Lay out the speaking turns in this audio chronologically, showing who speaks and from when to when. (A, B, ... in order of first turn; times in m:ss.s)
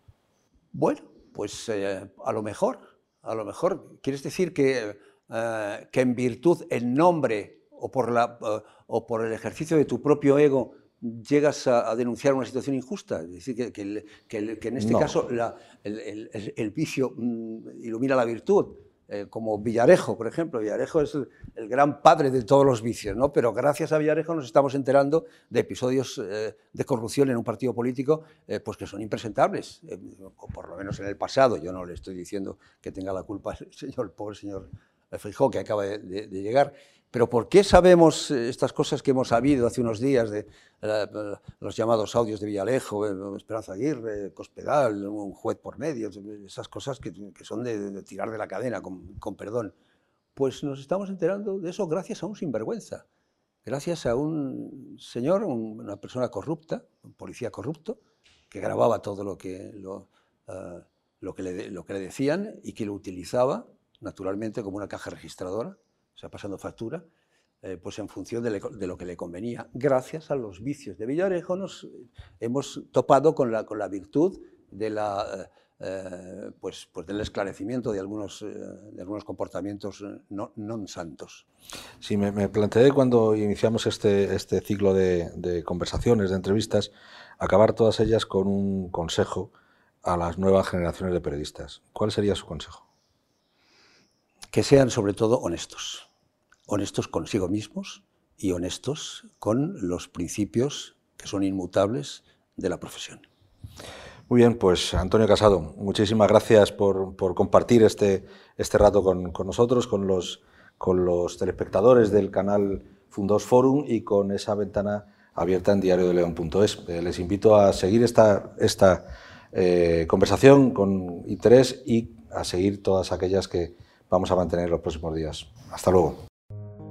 0:00.7-0:49.7 A
0:14.8-0:15.1 B
0:50.3-0:53.0 A
0:53.6-0:58.0 A
0:58.5-1:07.0 A
1:07.6-1:21.4 A
1:22.0-1:29.5 B
1:30.0-1:32.8 B
1:34.5-1:36.1 A
1:36.7-1:43.2 A
1:44.3-2:06.2 B